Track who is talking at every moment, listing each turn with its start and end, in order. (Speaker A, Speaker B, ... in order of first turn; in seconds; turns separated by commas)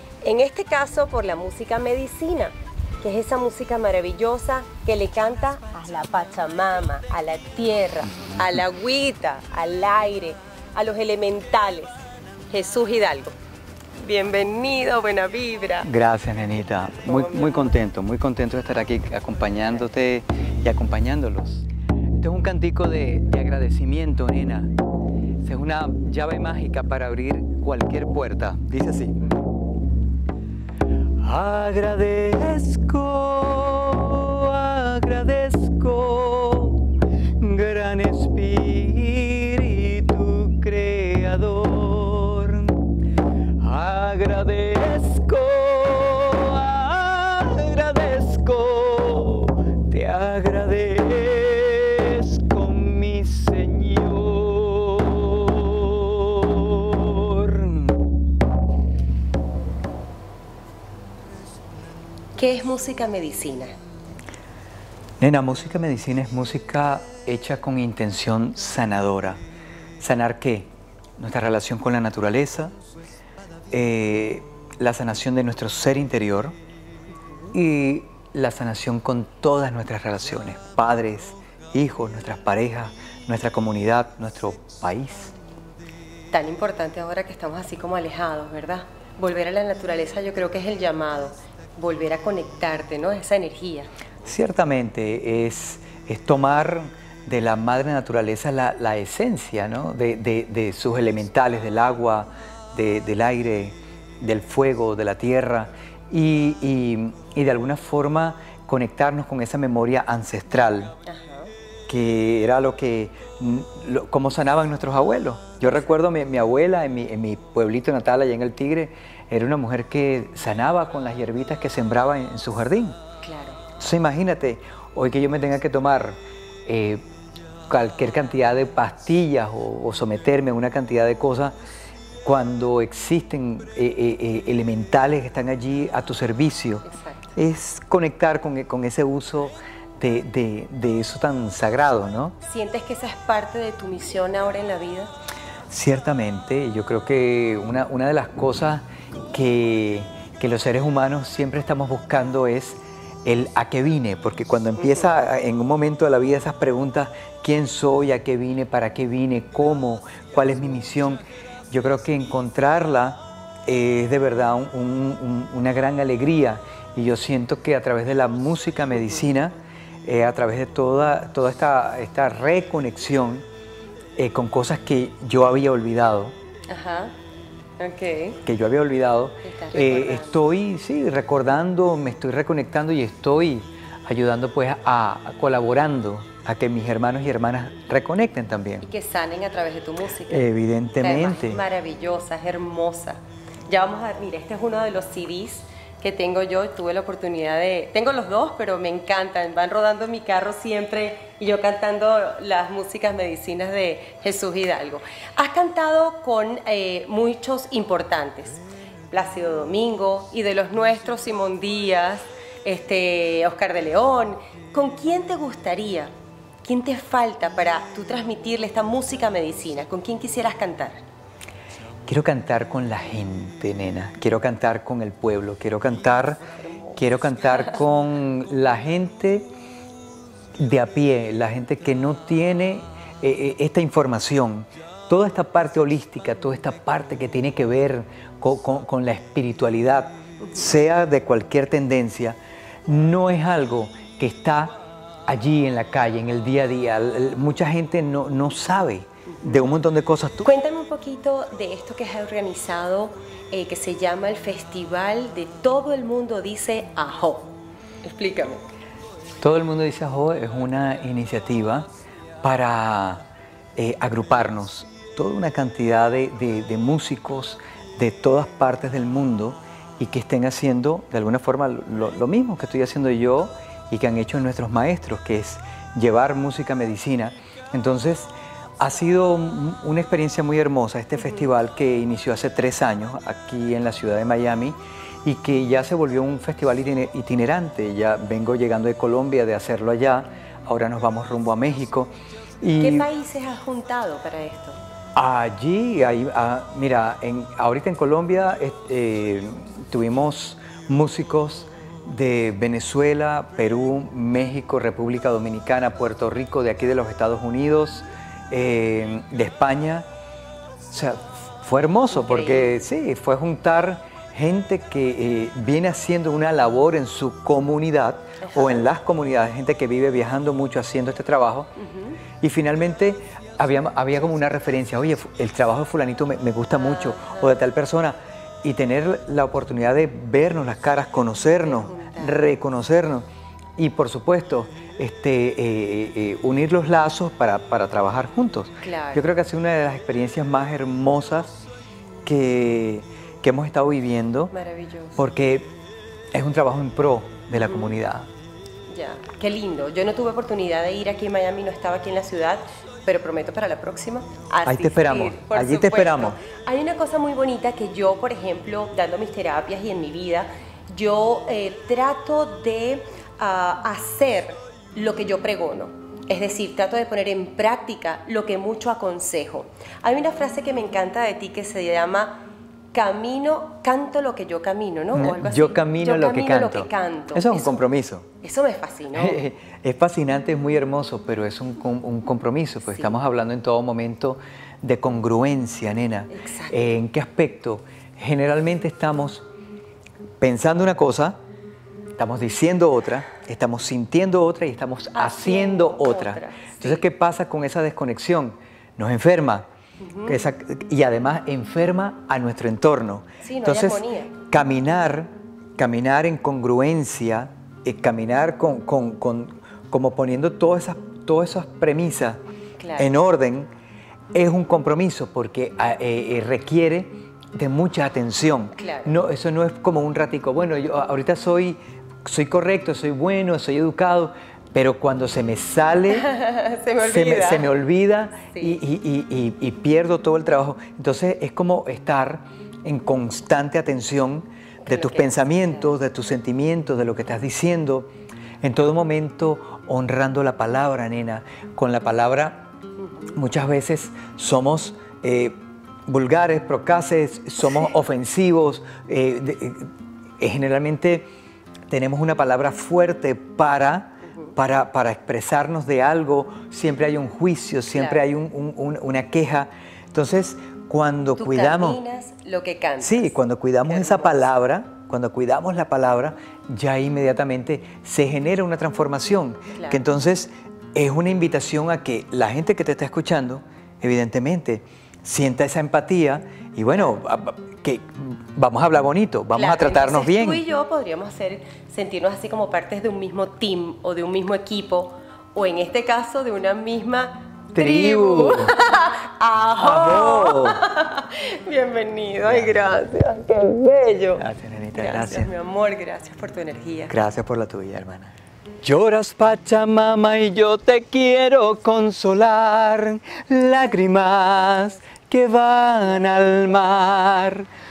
Speaker A: 0.2-12.0, Speaker A: 12.5-13.3, Speaker A: 14.0-15.9, Speaker B: 15.8-21.7, Speaker A: 17.1-17.7, Speaker B: 22.2-24.7, Speaker B: 25.4-29.2, Speaker B: 31.2-42.9, Speaker B: 43.6-58.0, Speaker A: 62.4-63.7, Speaker B: 65.2-69.4, Speaker B: 70.0-72.7, Speaker B: 73.7-76.5, Speaker B: 77.5-85.3, Speaker A: 86.3-93.9, Speaker B: 94.2-110.9, Speaker A: 111.0-111.5, Speaker B: 111.9-123.0, Speaker A: 123.2-123.6, Speaker B: 123.8-127.0, Speaker B: 127.7-131.5, Speaker B: 132.2-136.8, Speaker A: 136.8-137.3, Speaker B: 137.3-142.3, Speaker A: 142.4-145.1, Speaker B: 145.7-169.5, Speaker A: 154.8-155.1, Speaker B: 170.0-173.4, Speaker B: 174.2-176.3, Speaker A: 176.7-177.1, Speaker A: 177.8-178.4, Speaker B: 178.4-188.8, Speaker A: 179.4-180.4, Speaker A: 188.8-190.5, Speaker B: 190.3-191.6, Speaker A: 191.0-216.1, Speaker A: 216.6-221.0, Speaker B: 222.1-226.4, Speaker A: 226.5-227.0, Speaker B: 226.9-229.5, Speaker B: 230.6-250.5, Speaker A: 249.3-249.7, Speaker A: 250.4-257.5, Speaker A: 258.0-258.6, Speaker B: 259.4-261.9, Speaker B: 262.4-263.2, Speaker B: 263.8-293.1, Speaker A: 281.2-281.5, Speaker A: 292.8-294.8, Speaker B: 295.1-310.1, Speaker B: 310.9-321.7, Speaker A: 312.1-312.8, Speaker A: 318.4-318.9, Speaker A: 321.8-322.2, Speaker B: 322.4-333.2, Speaker A: 326.8-327.6, Speaker A: 331.6-332.4, Speaker B: 333.8-341.5, Speaker A: 338.8-339.2, Speaker B: 342.2-344.5, Speaker A: 344.5-345.1, Speaker B: 345.2-345.7, Speaker B: 346.3-348.3, Speaker A: 347.6-347.9, Speaker A: 348.9-377.8, Speaker B: 354.6-356.4, Speaker B: 375.1-378.3, Speaker A: 378.4-379.4, Speaker B: 379.1-389.4, Speaker A: 386.3-387.0, Speaker B: 390.4-391.4, Speaker B: 392.2-399.7, Speaker A: 395.1-397.0, Speaker A: 400.0-400.4, Speaker B: 400.3-412.4, Speaker A: 403.4-404.3, Speaker A: 412.8-413.1, Speaker B: 413.0-413.7, Speaker B: 414.3-426.2, Speaker A: 418.8-419.1, Speaker A: 426.1-427.7, Speaker B: 427.0-438.1, Speaker A: 428.5-428.8, Speaker A: 434.8-435.6, Speaker B: 438.6-442.7, Speaker B: 443.3-445.5, Speaker B: 446.1-451.3, Speaker B: 451.9-462.0, Speaker A: 454.3-454.5, Speaker A: 457.9-458.2, Speaker A: 461.4-463.3, Speaker B: 463.0-480.6, Speaker A: 463.9-464.5, Speaker A: 469.7-470.0, Speaker A: 479.5-497.1, Speaker B: 487.7-488.7, Speaker B: 489.8-490.8, Speaker B: 492.4-492.9, Speaker B: 494.4-495.5, Speaker B: 497.1-507.7